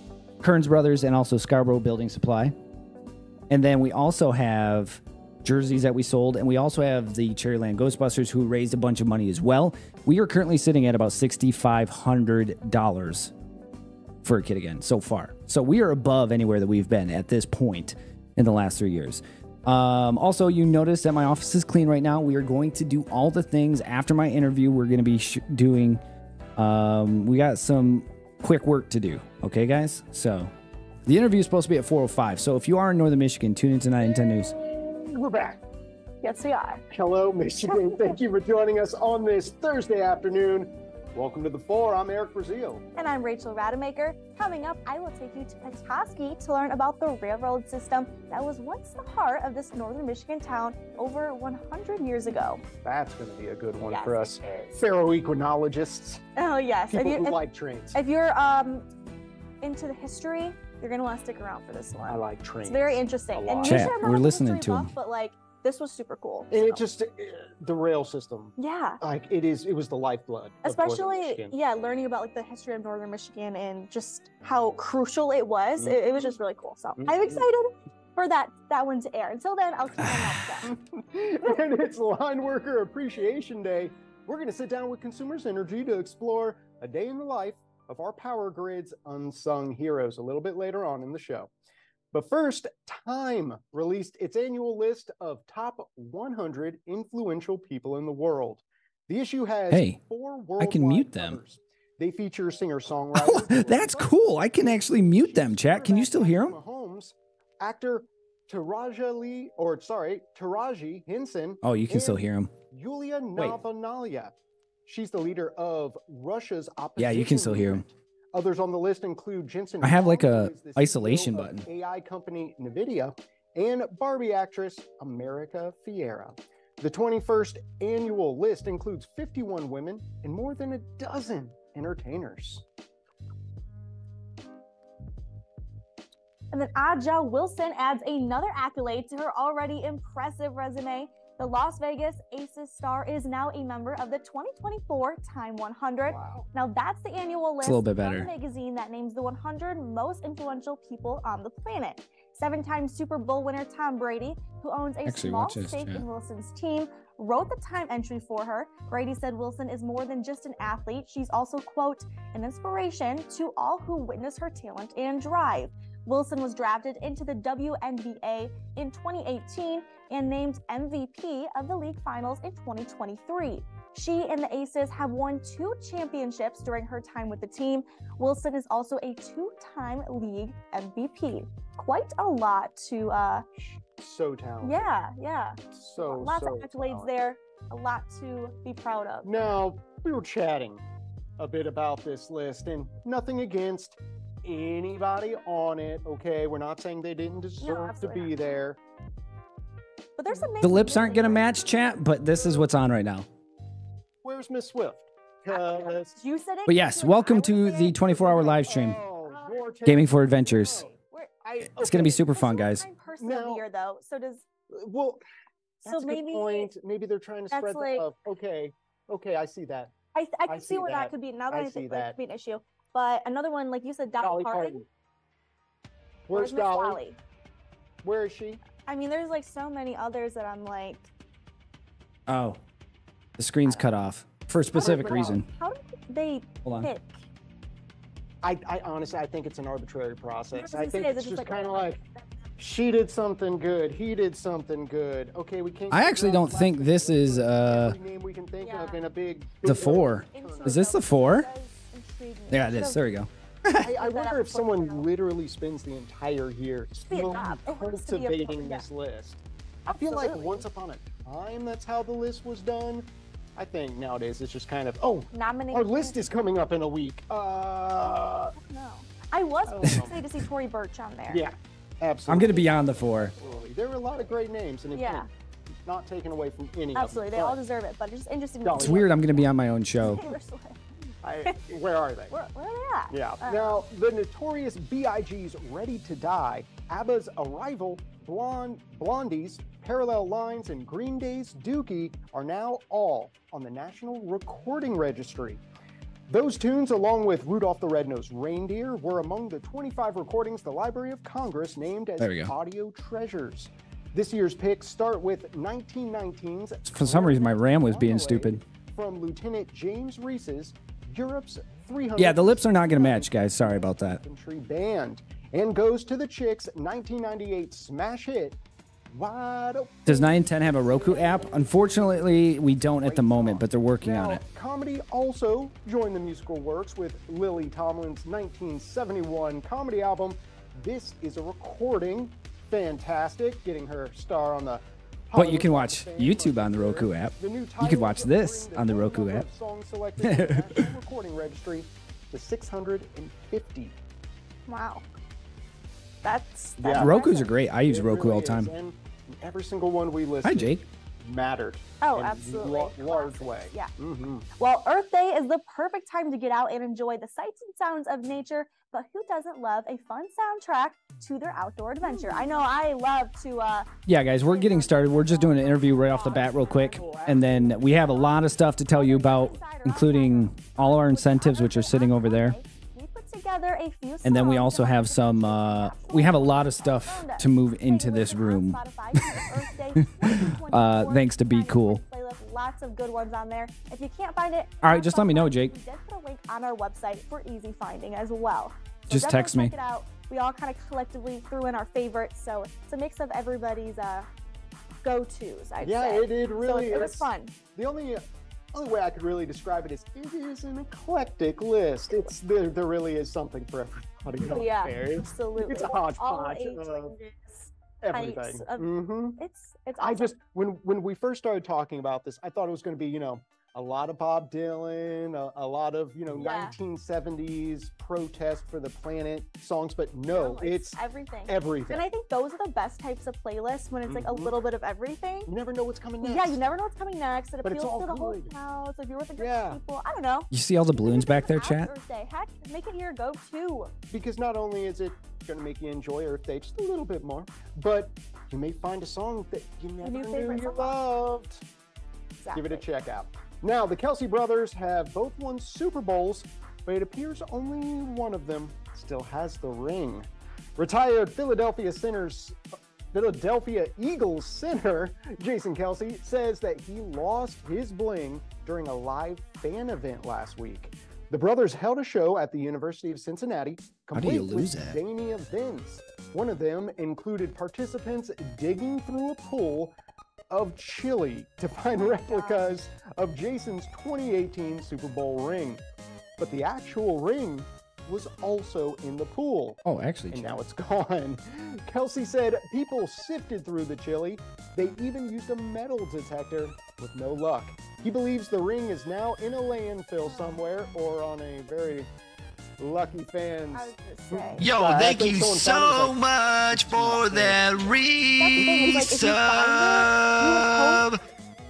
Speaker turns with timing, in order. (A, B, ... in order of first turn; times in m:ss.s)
0:00.4-0:02.5 A
0:03.5-0:13.3 A
0:14.2-0:26.0 A
0:26.6-0:30.5 A
0:31.0-0:34.5 A
0:34.7-0:35.6 B
0:36.2-0:36.8 C
0:36.9-0:42.8 B
0:43.0-0:52.6 C
0:52.8-0:56.2 B
0:53.9-0:54.3 C
0:56.4-0:57.4 C
0:56.9-0:58.0 B
0:57.9-0:58.8 C
0:59.6-1:06.8 C
1:02.1-1:04.0 B
1:03.7-1:04.9 A
1:06.5-1:11.5 B
1:08.6-1:09.0 C
1:10.6-1:20.7 C
1:15.8-1:16.3 B
1:17.0-1:17.4 B
1:20.0-1:20.3 A
1:20.6-1:31.5 B
1:32.1-1:54.3 B
1:39.7-1:40.0 A
1:40.6-1:41.4 A
1:43.1-1:46.6 A
1:51.6-1:52.5 A
1:54.8-2:12.6 B
1:57.0-1:57.8 A
1:59.8-2:01.6 A
2:16.5-3:03.4 C
2:26.0-2:26.4 B
2:27.6-2:28.3 A
2:35.0-2:36.0 A
3:03.6-3:04.8 B
3:04.6-3:09.3 C
3:05.7-3:07.1 B
3:09.2-3:10.8 B
3:11.4-3:18.8 B
3:17.6-3:18.3 C
3:20.2-3:21.6 C
3:20.6-3:23.3 A
3:24.2-3:26.1 B
3:25.5-3:28.1 C
3:26.6-3:29.0 A
3:28.0-3:32.3 B
3:29.2-3:29.6 C
3:29.8-3:30.8 A
3:31.8-3:32.8 A
3:32.2-3:34.4 C
3:33.2-3:33.6 B
3:34.7-3:35.2 B
3:35.8-3:36.7 C
3:35.8-3:39.9 B
3:37.5-3:38.0 C
3:40.1-3:44.8 C
3:40.5-3:42.2 B
3:44.2-3:44.8 B
3:46.3-3:47.0 B
3:46.3-3:47.2 C
3:48.0-3:48.6 B
3:48.8-3:51.1 C
3:52.3-3:52.6 A
3:53.4-3:55.5 A
3:53.7-3:53.9 C
3:54.7-3:57.2 C
3:54.8-3:55.4 B
3:56.6-3:56.9 A
3:58.4-4:02.0 B
4:00.6-4:02.3 C
4:02.6-4:10.9 B
4:05.9-4:08.0 A
4:08.6-4:09.0 C
4:09.6-4:11.5 A
4:10.3-4:13.0 C
4:12.5-4:13.8 A
4:13.8-4:15.1 C
4:13.8-4:28.5 B
4:17.1-4:18.8 C
4:19.9-4:20.6 C
4:25.3-4:26.2 C
4:28.6-4:31.4 C
4:29.7-4:30.2 B
4:31.3-4:32.7 B
4:32.3-4:33.3 A
4:33.4-4:35.3 B
4:34.9-4:35.3 C
4:35.8-4:37.6 B
4:36.9-4:39.5 C
4:38.6-4:39.0 B
4:38.8-4:40.2 A
4:40.0-4:40.8 C
4:41.2-4:42.3 B
4:42.3-4:43.8 C
4:43.1-4:55.6 B
4:56.3-5:18.6 B
5:02.2-5:02.5 A
5:06.9-5:08.6 A
5:12.2-5:14.2 A
5:19.1-5:20.3 B
5:20.0-5:24.4 A
5:20.8-5:21.5 C
5:23.0-5:44.0 B
5:35.3-5:39.4 A
5:40.2-5:40.9 A
5:44.7-5:45.0 C
5:46.2-5:47.5 C
5:46.8-5:47.1 B
5:46.9-5:48.7 A
5:47.8-5:54.5 B
5:50.4-5:50.8 A
5:52.0-5:53.9 C
5:54.6-6:03.9 C
6:02.0-6:02.4 B
6:04.0-6:12.6 A
6:04.4-6:07.2 C
6:06.2-6:07.9 B
6:08.1-6:08.3 C
6:08.9-6:34.3 C
6:14.2-6:22.0 A
6:24.8-6:25.7 A
6:29.1-6:29.7 A
6:35.0-6:37.5 C
6:35.8-6:38.2 B
6:38.7-6:47.2 B
6:44.4-6:50.3 C
6:48.0-6:49.4 B
6:50.0-7:02.0 B
6:56.3-6:56.7 C
7:00.3-7:05.5 C
7:04.1-7:04.6 B
7:05.5-7:06.6 B
7:06.2-7:13.9 C
7:07.6-7:08.5 B
7:09.4-7:09.8 B
7:10.5-7:11.9 A
7:14.1-7:21.6 B
7:20.0-7:20.9 C
7:22.4-7:22.8 C
7:22.5-7:32.6 B
7:33.1-7:49.9 B
7:44.1-7:45.0 A
7:50.5-7:55.8 B
7:52.0-7:52.7 C
7:56.4-7:59.8 B
7:59.8-8:00.6 A
8:00.3-8:12.1 B
8:10.2-8:10.6 C
8:12.8-8:17.6 B
8:13.7-8:14.6 C
8:14.6-8:21.2 D
8:18.4-8:21.0 C